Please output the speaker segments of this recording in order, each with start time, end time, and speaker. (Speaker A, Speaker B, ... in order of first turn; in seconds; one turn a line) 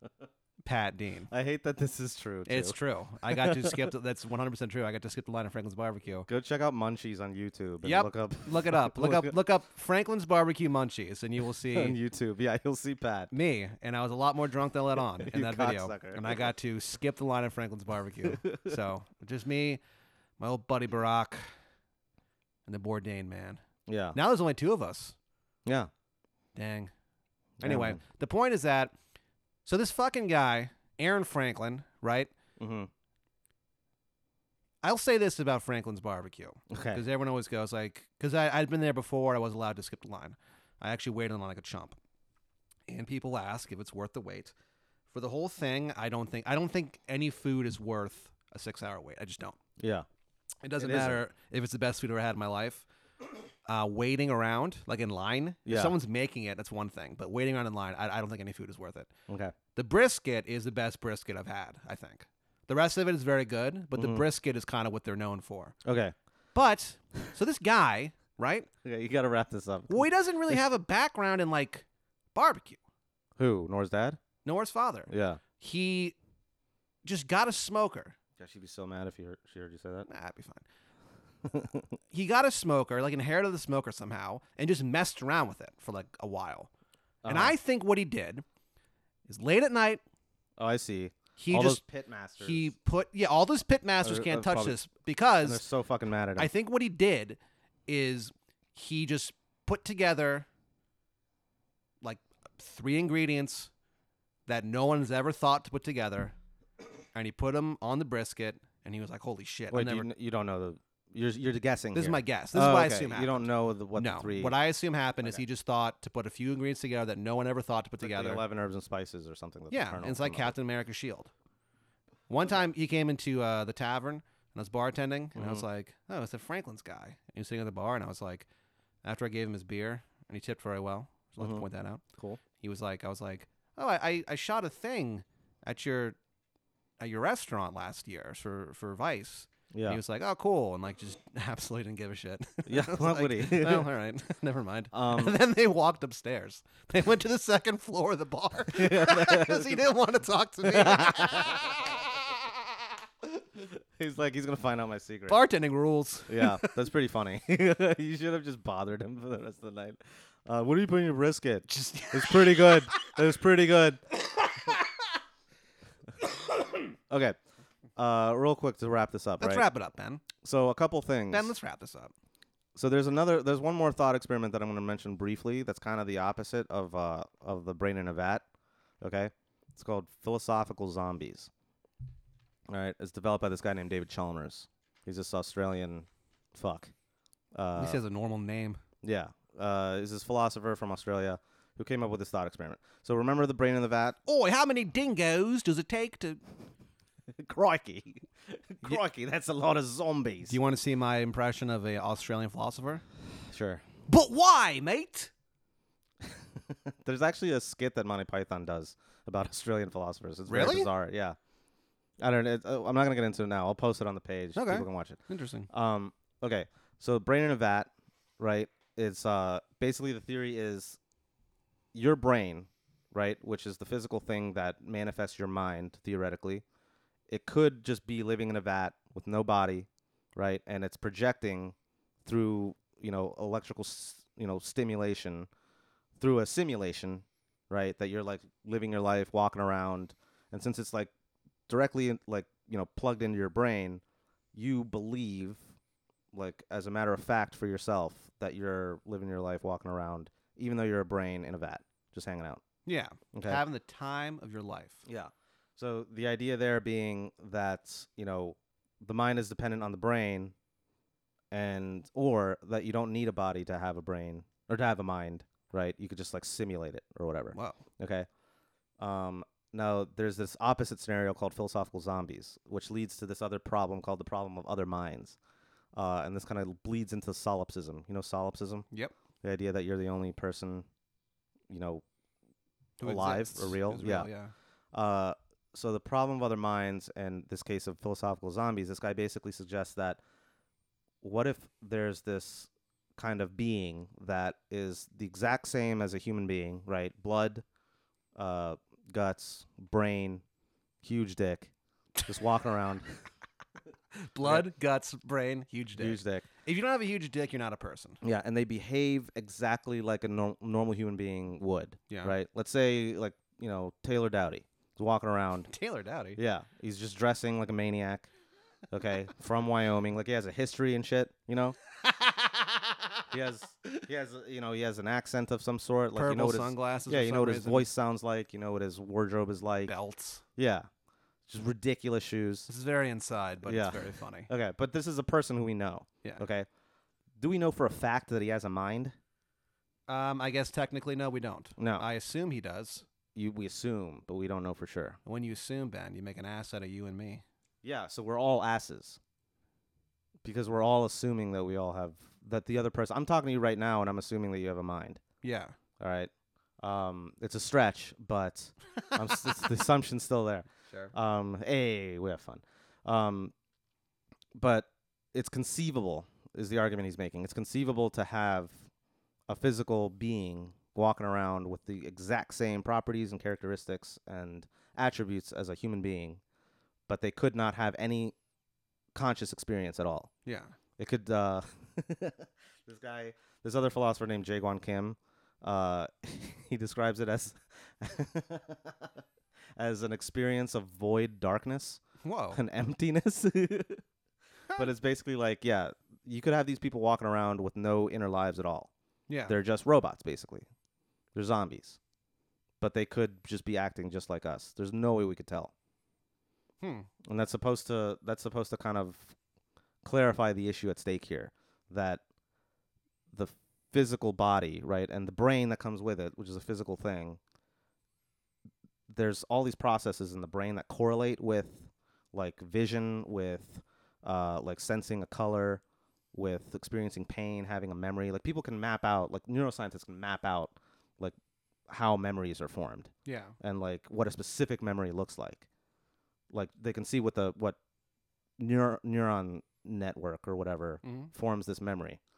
Speaker A: 0.6-1.3
Speaker B: 1.3-3.9
Speaker A: 2.5-6.3
Speaker B: 6.3-9.3
Speaker A: 7.8-12.0
Speaker B: 11.7-13.3
Speaker A: 13.3-19.8
Speaker B: 15.2-16.4
Speaker B: 18.2-18.7
Speaker A: 20.4-21.5
Speaker A: 22.6-23.6
Speaker B: 23.9-24.2
Speaker A: 24.1-25.1
Speaker B: 25.6-25.9
Speaker A: 26.5-26.9
Speaker B: 27.6-28.0
Speaker A: 27.6-28.9
Speaker A: 29.6-32.3
Speaker B: 32.6-32.9
Speaker A: 34.8-42.0
Speaker B: 36.7-37.0
Speaker A: 42.9-44.5
Speaker A: 45.1-49.6
Speaker B: 49.8-50.0
Speaker A: 50.6-52.8
Speaker B: 50.8-51.2
Speaker A: 53.6-59.1
Speaker B: 55.6-55.9
Speaker B: 59.3-59.5
Speaker A: 59.7-65.8
Speaker B: 63.9-64.2
Speaker B: 65.8-66.1
Speaker A: 66.5-68.7
Speaker B: 68.8-70.6
Speaker A: 69.9-72.8
Speaker B: 73.4-74.2
Speaker A: 74.4-76.2
Speaker B: 75.1-75.4
Speaker A: 77.0-78.2
Speaker B: 78.4-80.1
Speaker A: 80.1-80.6
Speaker B: 81.4-81.8
Speaker A: 82.1-86.7
Speaker B: 87.2-87.5
Speaker A: 87.2-88.4
Speaker A: 89.3-90.0
Speaker B: 90.6-92.7
Speaker A: 91.4-91.8
Speaker A: 92.4-95.6
Speaker B: 94.0-94.8
Speaker B: 95.4-96.5
Speaker A: 96.4-100.5
Speaker A: 102.0-103.7
Speaker A: 104.5-106.3
Speaker A: 107.1-110.1
Speaker B: 109.7-114.5
Speaker A: 111.9-118.4
Speaker B: 118.0-120.5
Speaker A: 119.7-121.3
Speaker A: 122.3-128.4
Speaker B: 125.3-125.6
Speaker A: 129.0-132.0
Speaker B: 131.4-131.7
Speaker A: 132.6-136.2
Speaker A: 137.0-152.1
Speaker B: 139.7-140.0
Speaker B: 142.7-143.9
Speaker B: 144.9-145.3
Speaker B: 148.7-149.9
Speaker B: 150.6-151.9
Speaker B: 153.5-155.4
Speaker A: 155.3-156.7
Speaker B: 156.3-164.0
Speaker A: 161.7-163.1
Speaker B: 167.1-167.4
Speaker B: 167.9-169.7
Speaker A: 169.4-170.2
Speaker B: 170.4-171.5
Speaker A: 171.3-172.1
Speaker B: 172.7-178.4
Speaker B: 179.0-181.5
Speaker B: 182.7-186.9
Speaker B: 187.5-188.0
Speaker A: 187.7-188.8
Speaker B: 189.0-194.2
Speaker A: 194.2-196.4
Speaker B: 197.3-200.6
Speaker A: 200.5-203.0
Speaker B: 203.5-203.8
Speaker A: 204.1-205.3
Speaker B: 206.2-211.4
Speaker A: 210.5-210.9
Speaker B: 212.2-221.0
Speaker A: 214.5-215.7
Speaker B: 221.9-226.6
Speaker B: 227.3-235.5
Speaker B: 236.2-241.1
Speaker B: 241.7-244.0
Speaker B: 244.5-245.6
Speaker B: 246.3-252.6
Speaker A: 252.8-255.0
Speaker B: 253.3-253.6
Speaker B: 255.1-260.5
Speaker B: 261.5-268.3
Speaker A: 267.5-267.8
Speaker B: 269.0-275.4
Speaker B: 275.9-278.9
Speaker B: 279.4-280.9
Speaker B: 281.7-282.0
Speaker A: 283.0-284.5
Speaker B: 283.0-284.3
Speaker B: 284.9-290.2
Speaker B: 291.2-297.6
Speaker B: 298.3-300.4
Speaker B: 301.0-301.7
Speaker B: 302.2-303.2
Speaker A: 304.2-308.2
Speaker B: 306.0-306.5
Speaker B: 308.2-315.7
Speaker A: 312.1-312.4
Speaker A: 315.7-316.4
Speaker B: 316.4-318.3
Speaker B: 318.9-321.8
Speaker A: 322.1-322.8
Speaker B: 323.3-329.9
Speaker A: 326.1-327.9
Speaker A: 329.9-330.4
Speaker B: 330.6-330.9
Speaker B: 331.5-332.7
Speaker A: 332.7-334.5
Speaker B: 333.6-336.7
Speaker B: 337.4-339.1
Speaker A: 340.1-343.1
Speaker B: 341.8-342.1
Speaker B: 343.3-345.2
Speaker A: 345.2-347.4
Speaker B: 347.8-349.2
Speaker B: 350.4-355.2
Speaker A: 355.4-355.7
Speaker B: 356.0-363.5
Speaker A: 359.1-359.5
Speaker B: 364.5-368.8
Speaker B: 369.5-376.4
Speaker B: 377.1-378.3
Speaker B: 379.1-380.3
Speaker A: 380.4-380.7
Speaker B: 381.0-389.2
Speaker B: 389.8-392.0
Speaker A: 392.2-392.6
Speaker B: 392.5-394.0
Speaker B: 394.8-398.9
Speaker A: 399.3-399.6
Speaker B: 399.5-400.7
Speaker B: 401.3-402.0
Speaker B: 402.8-405.7
Speaker A: 406.8-407.1
Speaker B: 407.2-409.3
Speaker B: 410.0-412.2
Speaker B: 413.3-417.4
Speaker B: 419.1-425.8
Speaker B: 426.3-431.3
Speaker B: 431.9-435.7
Speaker A: 433.2-433.5
Speaker B: 436.5-437.8
Speaker B: 438.6-442.2
Speaker A: 441.0-441.3